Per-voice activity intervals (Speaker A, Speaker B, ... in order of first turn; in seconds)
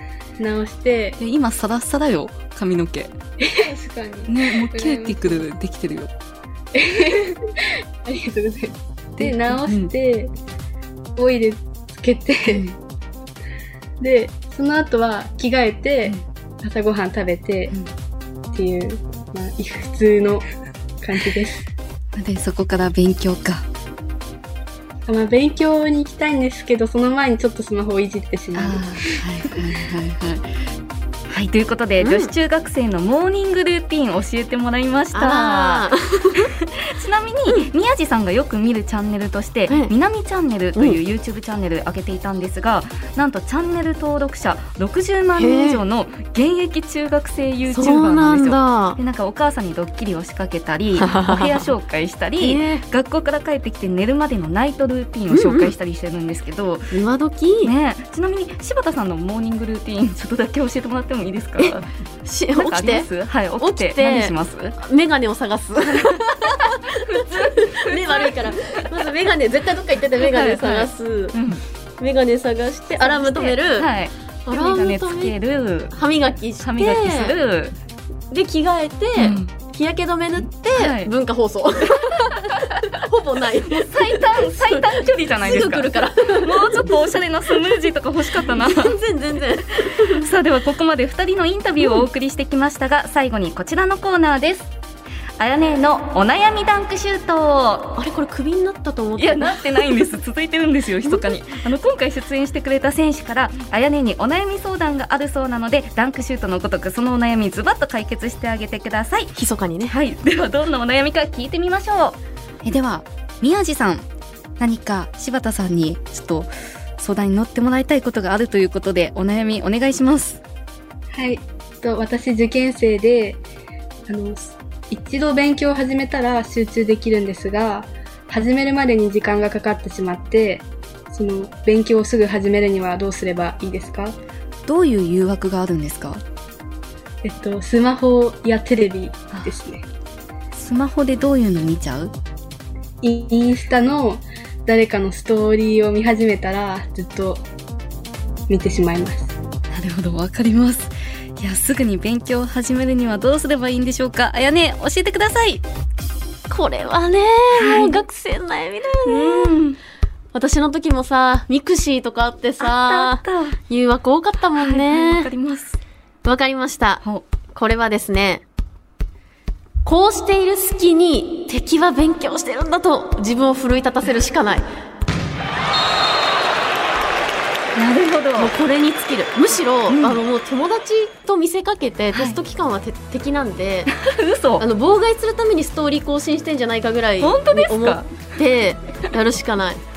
Speaker A: 0.4-1.2, 3.4-5.5, 6.7-10.3, 11.2-12.7, 14.0-17.8, 18.5-20.5, 21.0-21.7, 25.1-29.5, 121.1-123.4, 124.1-134.2, 137.2-139.9, 143.0-147.5, 148.5-149.3
Speaker B: 1.2-3.1, 4.3-6.1, 9.2-9.9, 12.5-12.8, 22.1-23.6, 28.5-30.5, 31.3-57.0, 57.6-61.9, 62.5-64.8, 66.9-69.0, 70.2-71.6, 72.9-76.0, 76.6-77.7, 79.2-79.5, 80.7-81.1, 82.3-82.9, 83.7-89.0, 90.0-94.7, 95.4-98.0, 99.2-109.3, 109.9-114.0, 114.6-120.4, 134.7-136.2, 139.3-139.6, 140.5-142.1, 149.7-155.6, 157.5-158.0, 159.0-159.8, 162.6-163.6, 164.5-165.8, 167.0-167.3, 177.8-178.5, 179.9-180.2, 182.1-182.4, 183.9-184.7, 187.2-188.3
Speaker C: 32.0-32.3, 35.1-36.5, 39.7-39.9, 45.4-45.8, 47.7-49.0, 50.9-51.7, 52.4-52.8, 55.3-55.8, 56.9-57.7, 61.6-71.4, 72.0-73.9, 74.5-75.4, 75.9-77.4, 78.3-86.9, 88.3-90.2, 98.0-100.1, 101.0-101.4, 109.3-110.0, 156.5-159.6, 160.3-165.3, 166.2-168.4, 169.8-174.7, 178.4-183.9, 184.6-189.8